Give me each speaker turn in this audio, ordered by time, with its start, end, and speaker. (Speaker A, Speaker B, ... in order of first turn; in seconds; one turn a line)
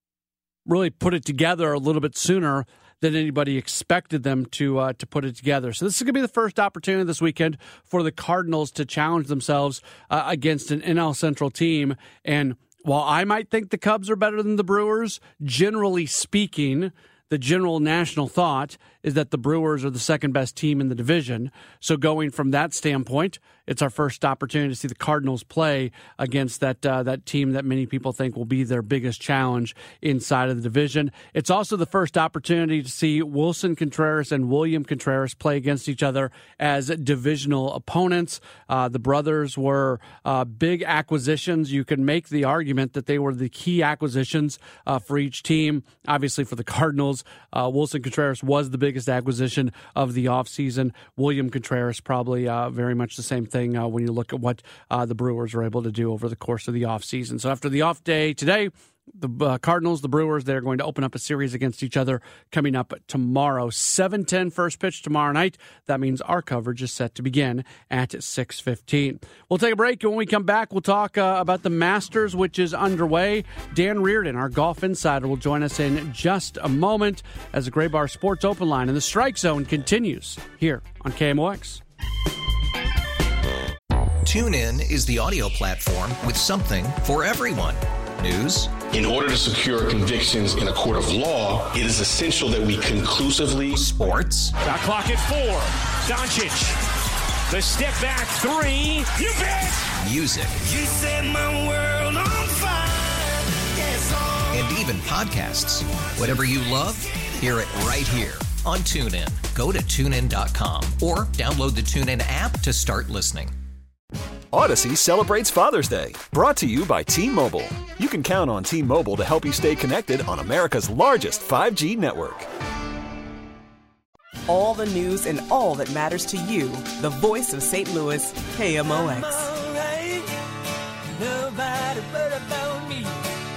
Speaker A: 0.7-81.8
Speaker B: 84.2-88.8
Speaker C: 88.9-93.8
Speaker B: 93.8-94.5
Speaker D: 94.6-96.8
Speaker D: 97.5-99.7
Speaker B: 100.0-100.6
Speaker E: 100.6-104.7
Speaker B: 104.5-113.5
Speaker F: 114.5-122.5
Speaker G: 124.5-129.4
Speaker D: 128.9-130.5
Speaker D: 131.1-133.2